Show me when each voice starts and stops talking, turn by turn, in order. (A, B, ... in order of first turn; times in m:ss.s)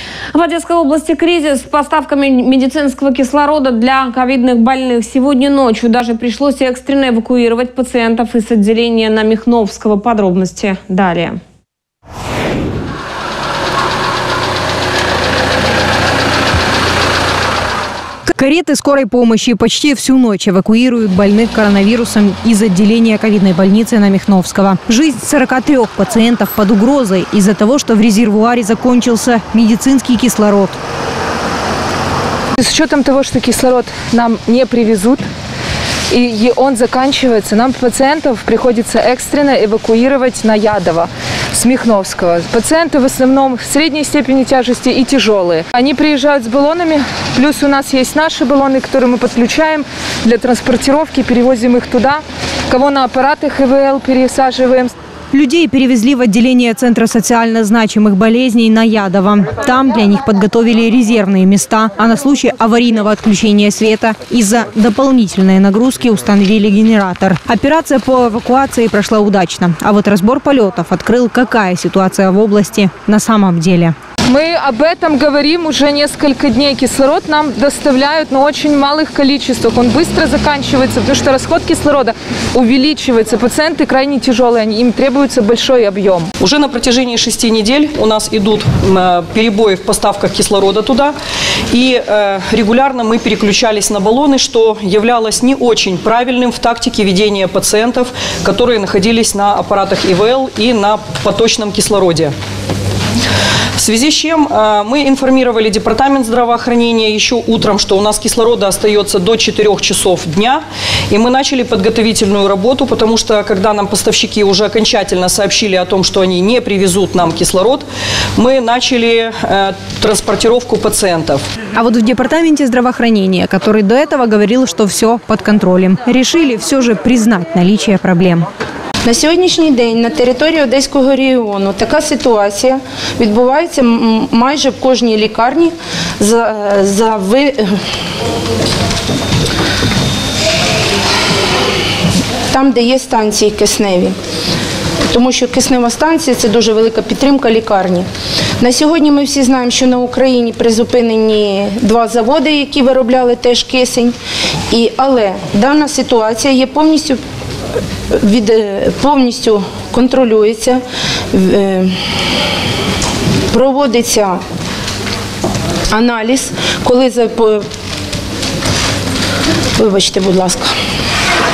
0:00.3-0:11.4 A
0:18.3-0:30.8 B
0:32.6-0:35.2 C
0:36.1-0:54.9 C
0:55.3-1:14.0 B
1:14.2-1:26.3 C
1:26.4-1:31.1 D
1:31.7-1:42.3 D
1:43.8-2:01.4 D
2:01.8-2:08.4 B
2:09.0-2:17.8 E
2:22.5-2:24.1 E
2:25.1-2:28.1 E
2:28.6-2:34.2 E
2:34.7-2:37.2 E
2:38.2-2:40.8 E
2:41.3-2:41.9 E
2:43.5-2:44.4 E
2:45.9-2:47.6 E
2:49.8-2:50.7 E